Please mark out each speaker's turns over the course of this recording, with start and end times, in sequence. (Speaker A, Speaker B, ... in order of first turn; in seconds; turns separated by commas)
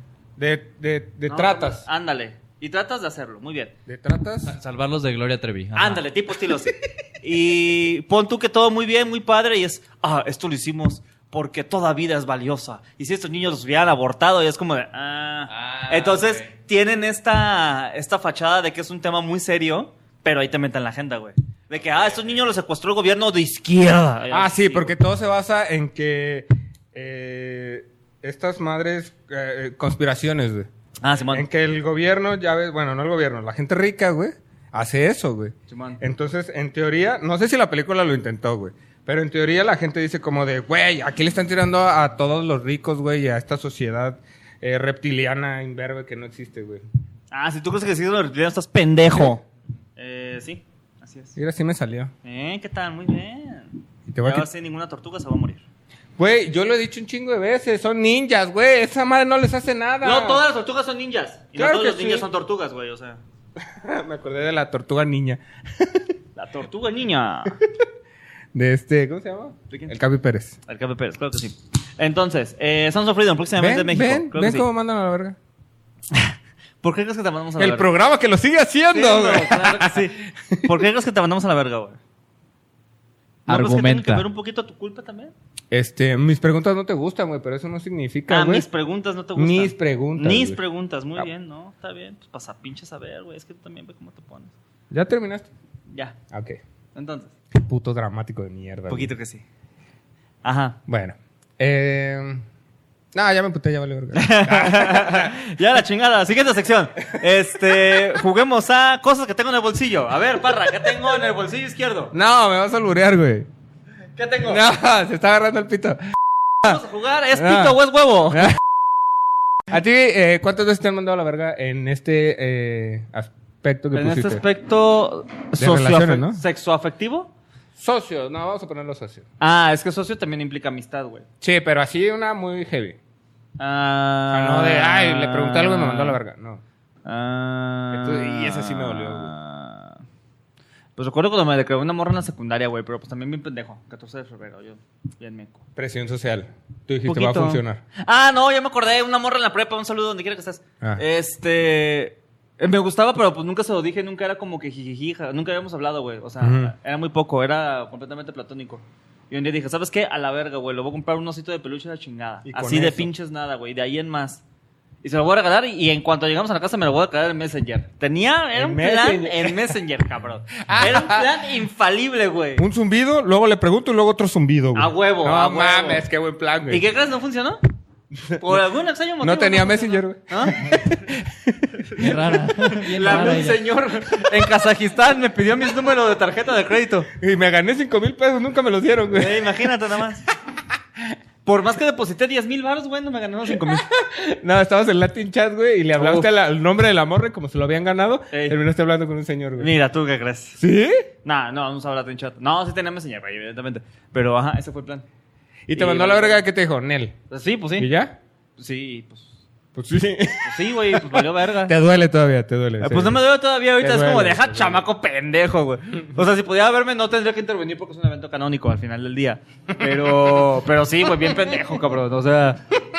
Speaker A: 0.4-1.8, Speaker B: 1.3-3.7, Speaker A: 3.9-4.5, Speaker C: 4.4-6.0, Speaker B: 5.8-24.9, Speaker C: 15.5-16.5, Speaker A: 24.3-30.7, Speaker B: 31.0-31.4, Speaker A: 31.3-46.8, Speaker B: 35.7-36.0, Speaker B: 47.3-49.4, Speaker B: 50.0-51.4, Speaker A: 51.4-52.1, Speaker B: 52.2-53.7, Speaker A: 54.1-54.5, Speaker B: 54.2-55.6, Speaker A: 56.2-60.4, Speaker B: 60.0-63.2, Speaker A: 61.5-62.3, Speaker A: 63.6-66.1, Speaker B: 66.3-67.6, Speaker A: 68.5-70.6, Speaker B: 70.7-74.7, Speaker A: 73.6-75.4, Speaker B: 76.1-77.9, Speaker A: 77.6-80.7, Speaker B: 78.9-82.0, Speaker B: 83.5-85.3, Speaker C: 83.5-84.2, Speaker A: 85.7-88.7, Speaker B: 88.3-94.5, Speaker A: 89.3-90.6, Speaker A: 94.9-95.5, Speaker B: 95.9-96.2, Speaker A: 96.3-96.6, Speaker B: 96.9-97.3, Speaker A: 97.6-99.1, Speaker B: 98.9-99.4, Speaker B: 100.4-100.8, Speaker A: 100.9-102.4, Speaker A: 103.1-105.3, Speaker B: 104.1-112.1, Speaker A: 112.1-113.5, Speaker B: 114.2-114.6, Speaker A: 114.4-116.0, Speaker B: 116.6-118.5, Speaker A: 117.3-117.8, Speaker A: 118.3-118.6, Speaker A: 119.7-124.4, Speaker B: 123.9-127.3, Speaker A: 125.6-126.4, Speaker A: 127.8-129.2, Speaker B: 129.4-131.2, Speaker A: 131.4-133.0, Speaker B: 133.6-136.2, Speaker A: 134.3-136.6, Speaker B: 137.0-140.0, Speaker A: 137.9-139.3, Speaker B: 141.0-145.6, Speaker A: 145.8-147.8, Speaker B: 147.1-164.4, Speaker A: 156.4-156.7, Speaker A: 162.4-163.1, Speaker B: 165.0-172.6, Speaker A: 168.5-169.7, Speaker A: 170.6-171.3, Speaker A: 172.6-176.8, Speaker B: 174.7-176.0, Speaker B: 176.7-177.6, Speaker A: 178.2-178.6, Speaker B: 178.4-180.6, Speaker A: 179.2-182.2, Speaker C: 181.9-183.6, Speaker B: 182.8-187.1, Speaker A: 187.2-189.7, Speaker B: 189.1-190.2, Speaker B: 191.4-193.8, Speaker A: 193.5-199.7, Speaker B: 195.9-196.3, Speaker B: 198.3-198.6, Speaker B: 199.6-200.6, Speaker A: 200.6-201.1, Speaker B: 201.2-205.0, Speaker A: 205.7-207.2, Speaker B: 205.7-206.4, Speaker B: 207.3-207.9, Speaker A: 207.8-208.2, Speaker B: 208.6-209.3, Speaker A: 209.7-213.2, Speaker B: 210.4-211.7, Speaker B: 212.8-222.6, Speaker A: 213.8-214.8